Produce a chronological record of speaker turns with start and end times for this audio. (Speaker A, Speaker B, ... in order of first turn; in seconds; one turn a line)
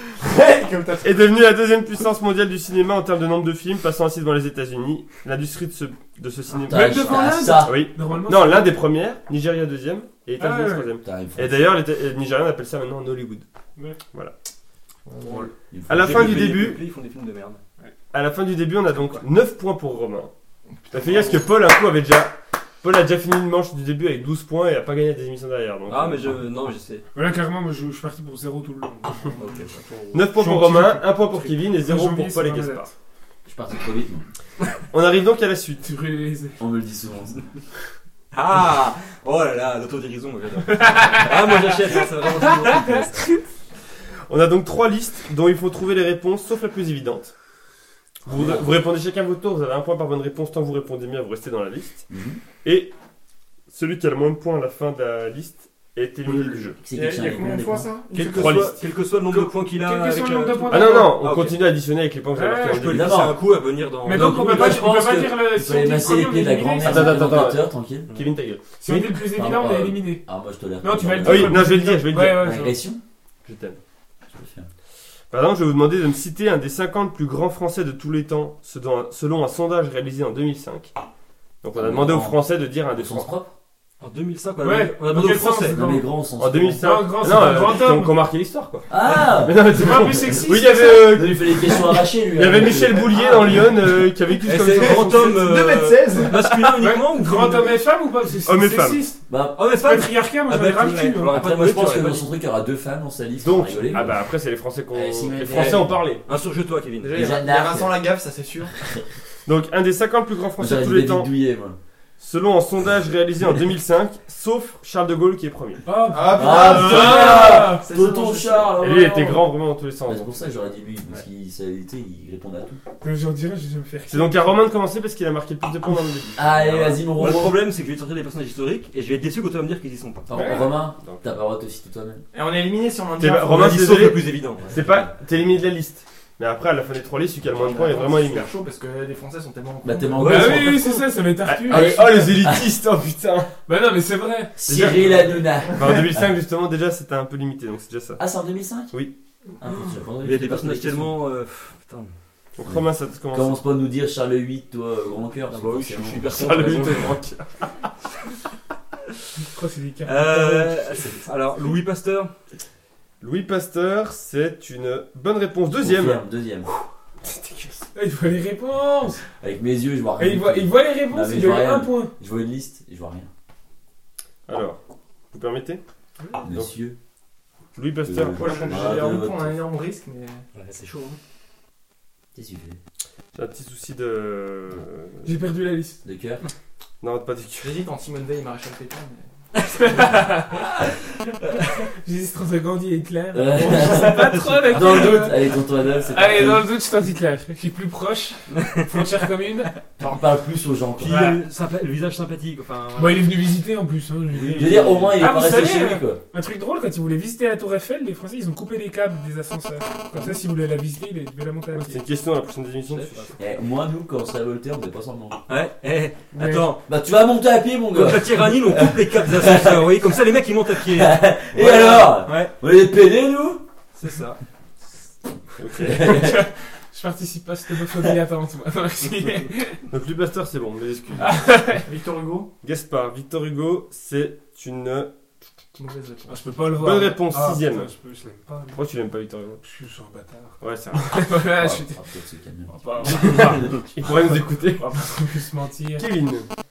Speaker A: 0.2-1.1
Speaker B: 1.0-13.4
Speaker C: 6.7-8.8
Speaker D: 6.7-7.8
Speaker C: 10.4-10.9
Speaker D: 11.0-11.7
Speaker A: 15.1-15.5
Speaker D: 15.7-16.7
Speaker B: 15.9-16.8
Speaker E: 15.9-17.6
Speaker B: 18.1-20.3
Speaker A: 20.9-21.4
Speaker B: 20.9-26.4
Speaker E: 25.9-27.1
Speaker C: 27.1-32.9
Speaker E: 29.4-30.2
Speaker B: 30.1-32.9
Speaker D: 33.5-34.2
Speaker B: 34.9-35.9
Speaker C: 35.8-36.6
Speaker D: 36.6-37.5
Speaker E: 38.3-43.2
Speaker C: 40.7-43.1
Speaker B: 44.3-47.3
Speaker B: 48.2-52.1
Speaker D: 48.3-48.6
Speaker D: 52.1-52.4
Speaker B: 52.6-52.9
Speaker B: 53.7-56.8
Speaker D: 56.3-57.9
Speaker A: 56.9-58.7
Speaker E: 58.1-61.6
Speaker B: 58.3-58.7
Speaker C: 59.3-61.3
Speaker B: 60.7-63.3
Speaker C: 62.3-62.9
Speaker E: 62.6-64.8
Speaker D: 62.9-63.4
Speaker C: 64.0-67.5
Speaker D: 64.1-68.1
Speaker B: 66.8-69.2
Speaker C: 68.8-70.2
Speaker D: 69.0-73.0
Speaker C: 70.8-72.8
Speaker B: 71.2-72.6
Speaker B: 73.5-73.8
Speaker D: 74.3-74.7
Speaker B: 75.3-80.9
Speaker B: 81.6-83.3
Speaker D: 81.8-83.5
Speaker E: 84.0-85.8
Speaker C: 84.6-86.1
Speaker D: 85.7-86.8
Speaker B: 86.4-95.5
Speaker C: 86.7-88.2
Speaker D: 88.9-93.1
Speaker C: 89.7-91.3
Speaker E: 94.4-97.8
Speaker A: 94.7-96.4
Speaker C: 96.8-101.4
Speaker B: 98.5-99.1
Speaker D: 99.3-99.6
Speaker E: 99.6-102.3
Speaker D: 101.3-104.2
Speaker B: 103.4-106.2
Speaker D: 104.9-106.0
Speaker E: 106.2-107.2
Speaker A: 107.0-108.8
Speaker D: 107.1-108.0
Speaker B: 109.5-111.3
Speaker D: 110.6-111.8
Speaker B: 112.2-115.9
Speaker C: 115.8-117.9
Speaker A: 116.1-118.8
Speaker D: 116.3-119.5
Speaker B: 116.7-117.2
Speaker B: 118.8-120.6
Speaker D: 120.0-122.8
Speaker C: 123.0-124.6
Speaker B: 124.1-126.9
Speaker D: 126.3-127.6
Speaker E: 126.6-130.5
Speaker D: 130.3-132.2
Speaker C: 130.3-130.7
Speaker B: 130.9-131.3
Speaker A: 132.3-133.9
Speaker B: 133.2-138.5
Speaker E: 133.5-134.8
Speaker D: 134.8-135.1
Speaker A: 137.5-140.7
Speaker D: 139.8-141.1
Speaker C: 140.2-142.4
Speaker B: 141.4-143.5
Speaker D: 141.7-142.7
Speaker C: 143.7-144.6
Speaker D: 144.6-146.3
Speaker B: 144.7-148.2
Speaker D: 148.2-148.9
Speaker D: 149.6-151.1
Speaker E: 150.2-152.1
Speaker B: 152.6-153.6
Speaker D: 152.6-157.0
Speaker E: 155.5-157.2
Speaker B: 156.2-157.7
Speaker C: 159.4-161.1
Speaker E: 160.1-162.3
Speaker B: 163.2-166.2
Speaker D: 165.8-166.7
Speaker B: 167.2-167.9
Speaker C: 167.9-169.2
Speaker D: 169.4-173.3
Speaker C: 170.2-172.1
Speaker B: 174.5-174.8
Speaker B: 175.3-175.8
Speaker D: 176.4-177.0
Speaker B: 177.8-178.8
Speaker D: 178.0-179.6
Speaker A: 178.3-180.4
Speaker E: 180.5-181.2
Speaker D: 182.3-182.8
Speaker B: 183.3-185.4
Speaker C: 185.2-186.0
Speaker D: 186.0-186.4
Speaker B: 187.0-187.8
Speaker A: 187.6-189.3
Speaker C: 189.7-190.9
Speaker C: 191.8-199.8
Speaker D: 193.3-196.7
Speaker E: 193.7-195.2
Speaker E: 198.6-199.0
Speaker D: 200.0-201.4
Speaker E: 201.0-203.4
Speaker C: 201.1-201.4
Speaker C: 203.0-212.0
Speaker E: 204.3-205.2
Speaker D: 204.4-206.2
Speaker B: 211.7-213.4
Speaker E: 212.9-213.3
Speaker D: 213.4-215.4
Speaker E: 215.5-216.8
Speaker C: 216.3-216.8
Speaker D: 216.8-219.9
Speaker E: 217.9-222.5
Speaker D: 220.8-223.7
Speaker E: 224.0-224.4
Speaker B: 225.6-226.3
Speaker D: 225.8-226.4
Speaker C: 226.0-229.9
Speaker B: 229.9-231.5
Speaker C: 231.2-231.9
Speaker A: 231.9-232.5
Speaker B: 232.6-235.1
Speaker A: 235.8-236.5
Speaker C: 236.3-238.8
Speaker B: 236.7-237.9
Speaker B: 238.7-239.6
Speaker C: 239.6-242.0
Speaker B: 240.6-241.1
Speaker D: 241.4-243.8
Speaker C: 242.7-246.1
Speaker B: 243.1-245.0
Speaker B: 245.9-246.5